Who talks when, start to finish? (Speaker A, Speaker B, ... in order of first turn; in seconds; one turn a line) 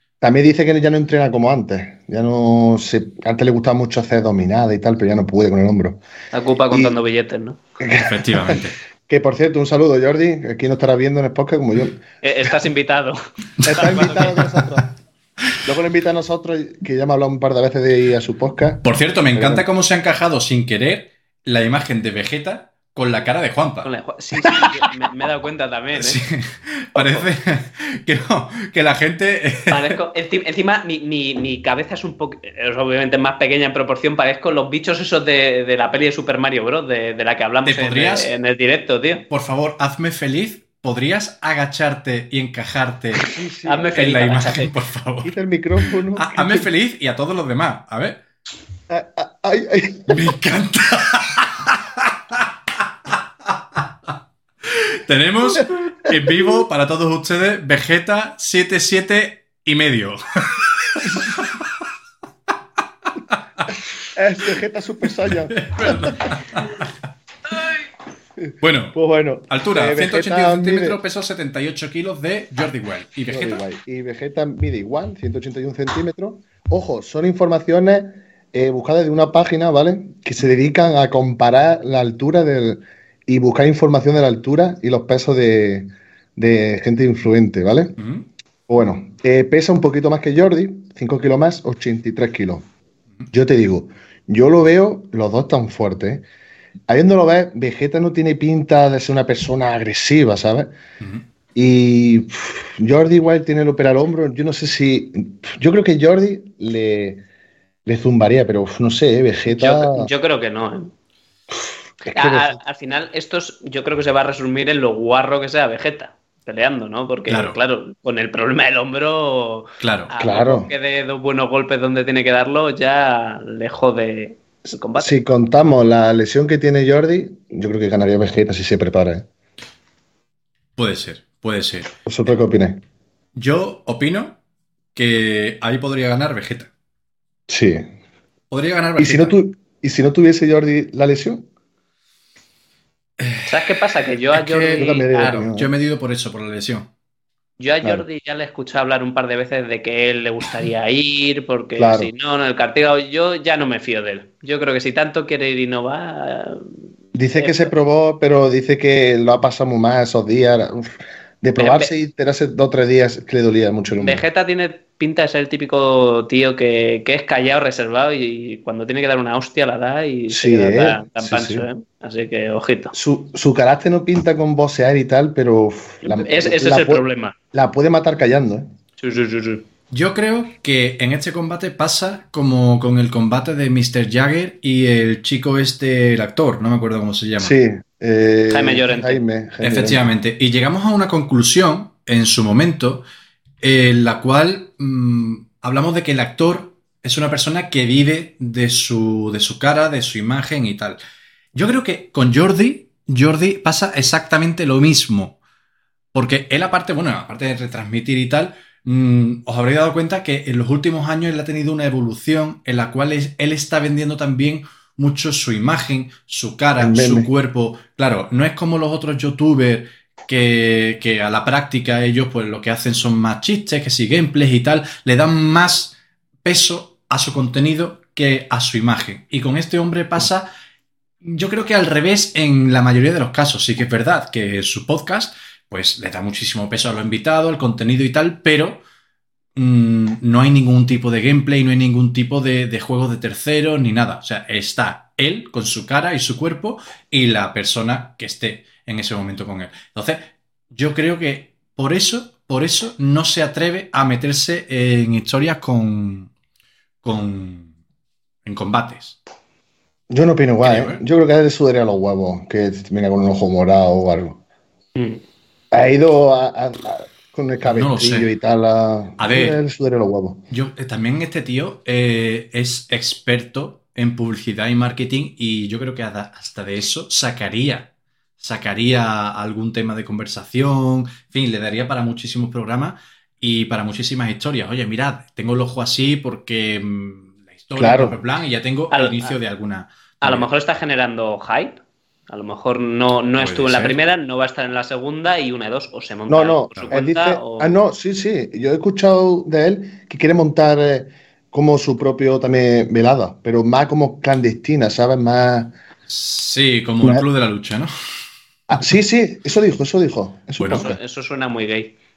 Speaker A: 0.2-6.0
Speaker B: 6.3-7.6
Speaker A: 6.7-7.0
Speaker A: 7.8-12.0
Speaker C: 8.0-8.8
Speaker B: 12.2-14.4
Speaker A: 13.6-14.9
Speaker C: 14.0-14.4
Speaker A: 15.6-19.7
Speaker C: 18.8-23.9
Speaker B: 23.8-26.2
Speaker C: 25.9-30.0
Speaker B: 27.0-27.3
Speaker B: 29.7-39.3
Speaker C: 37.6-38.3
Speaker C: 39.3-43.3
Speaker A: 43.3-44.0
Speaker B: 43.6-44.7
Speaker C: 43.9-48.2
Speaker A: 45.2-46.7
Speaker A: 48.9-50.3
Speaker C: 50.1-52.5
Speaker C: 53.1-53.8
Speaker C: 54.6-61.6
Speaker C: 63.3-63.7
Speaker A: 64.1-66.1
Speaker C: 65.5-66.9
Speaker A: 68.4-71.0
Speaker C: 68.6-73.6
Speaker A: 73.3-88.0
Speaker C: 88.0-88.3
Speaker A: 88.7-92.7
Speaker A: 93.3-96.3
Speaker A: 96.9-100.7
Speaker A: 101.5-107.2
Speaker A: 107.9-110.1
Speaker B: 109.5-110.9
Speaker A: 111.5-112.6
Speaker B: 112.0-125.1
Speaker C: 117.3-117.6
Speaker C: 119.8-120.1
Speaker A: 120.2-120.7
Speaker A: 125.0-129.3
Speaker C: 130.8-131.9
Speaker A: 132.1-132.8
Speaker C: 133.4-134.4
Speaker C: 134.9-136.7
Speaker A: 137.5-137.9
Speaker C: 138.5-139.4
Speaker A: 139.0-141.5
Speaker C: 143.2-143.8
Speaker B: 143.5-145.1
Speaker C: 144.3-146.9
Speaker A: 144.8-145.7
Speaker B: 147.6-156.6
Speaker A: 151.8-152.1
Speaker A: 157.1-164.2
Speaker B: 157.3-157.7
Speaker B: 161.6-161.9
Speaker B: 164.0-172.9
Speaker A: 170.3-171.7
Speaker A: 172.9-178.8
Speaker B: 176.0-177.3
Speaker B: 179.0-179.7
Speaker C: 179.9-187.6
Speaker A: 187.4-190.1
Speaker B: 188.5-189.2
Speaker C: 189.6-193.1
Speaker C: 193.6-201.0
Speaker C: 201.5-205.4
Speaker C: 206.1-230.5
Speaker A: 216.8-217.3
Speaker C: 231.2-238.8
Speaker C: 239.6-256.3
Speaker C: 257.0-257.7
Speaker C: 258.5-259.2
Speaker A: 260.1-264.4
Speaker C: 260.6-261.0
Speaker B: 264.9-265.2
Speaker A: 265.7-270.4
Speaker C: 267.6-268.3
Speaker C: 269.2-269.6
Speaker C: 270.5-290.5
Speaker A: 287.8-288.2
Speaker B: 288.9-289.4
Speaker B: 290.2-297.8
Speaker C: 293.4-294.0
Speaker A: 296.3-305.8
Speaker C: 306.1-307.9
Speaker A: 308.7-311.0
Speaker C: 310.6-310.9
Speaker B: 310.7-311.9